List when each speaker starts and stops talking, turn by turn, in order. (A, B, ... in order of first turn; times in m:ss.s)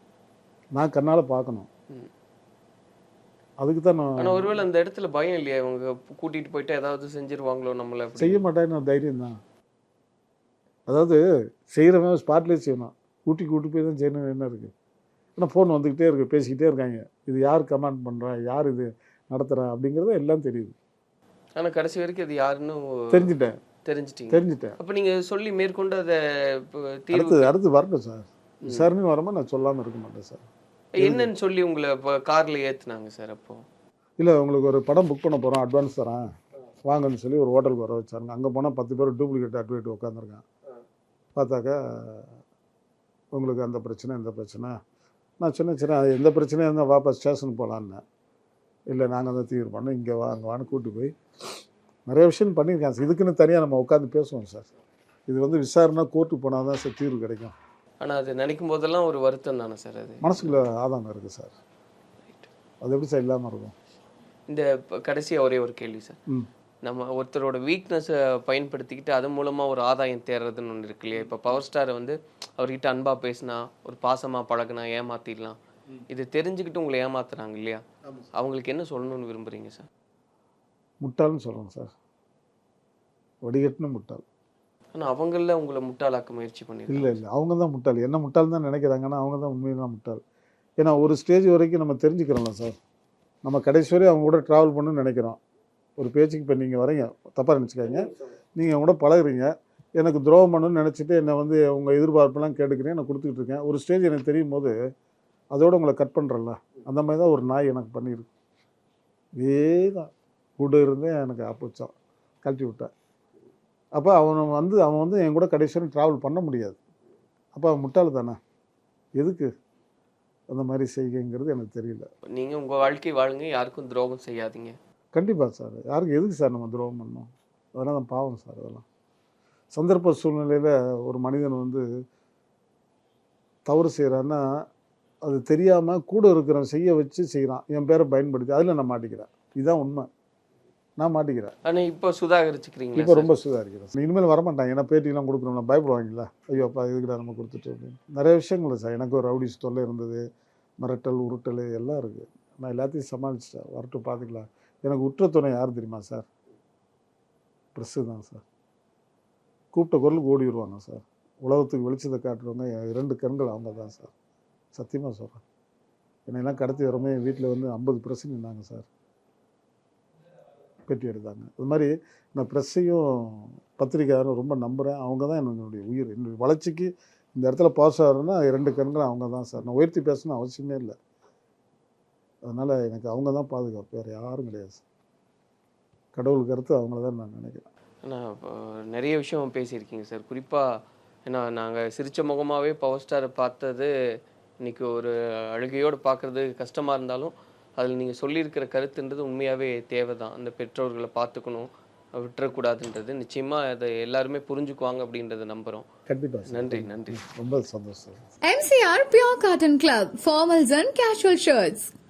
0:00.8-0:01.7 A
0:03.6-0:04.6 A
0:04.2-0:08.4 B
0:08.2-0:09.4 A
0:10.9-0:14.7 A
0:15.4-0:20.8 A
0:21.6-0:23.3 B
0:23.1-0:23.6 A
0:23.8-0:27.5 B
0:24.3-0:24.8 A
0:27.1-0:30.4 A
0:28.6-0:28.9 B
0:31.0-0:33.6 B
0:31.0-0:31.3 A
0:34.2-0:36.2 A
0:36.8-0:40.4 A
0:41.3-0:42.3 A
0:43.3-0:44.8 A
0:45.4-0:48.0 A
0:48.9-0:54.7 A
0:55.3-0:57.5 A
0:58.0-1:00.6 B
1:00.2-1:01.5 A
1:02.8-1:03.7 A
1:04.5-1:06.2 B
1:06.8-1:15.6 B
1:16.1-1:17.8 B
1:18.3-1:19.9 B
1:21.0-1:21.9 A
1:23.4-1:24.2 A
1:24.9-1:27.2 B
1:26.9-1:30.2 A
1:30.8-1:32.8 A
1:33.4-1:35.4 A
1:36.0-1:44.7 A
1:45.5-1:48.3 A
1:49.4-1:52.9 A
1:54.0-1:56.8 A
1:57.5-1:58.4 A
1:59.2-1:59.5 A
2:00.5-2:02.1 A
2:02.3-2:04.8 B
2:05.1-2:08.8 A
2:09.7-2:11.8 A
2:13.6-2:14.4 A
2:15.2-2:20.1 A
2:21.0-2:21.5 A
2:21.6-2:23.3 B
2:23.0-2:30.2 A
2:30.8-2:36.2 A
2:37.7-2:38.4 A
2:39.7-2:44.1 A
2:44.7-2:45.4 A
2:46.2-2:48.9 A
2:50.9-3:01.0 A
3:02.4-3:04.8 A
3:06.1-3:07.7 A
3:08.0-3:10.6 B
3:11.2-3:13.9 B
3:14.6-3:25.8 B
3:26.1-3:28.3 A
3:26.5-3:27.2 B
3:28.4-3:31.9 C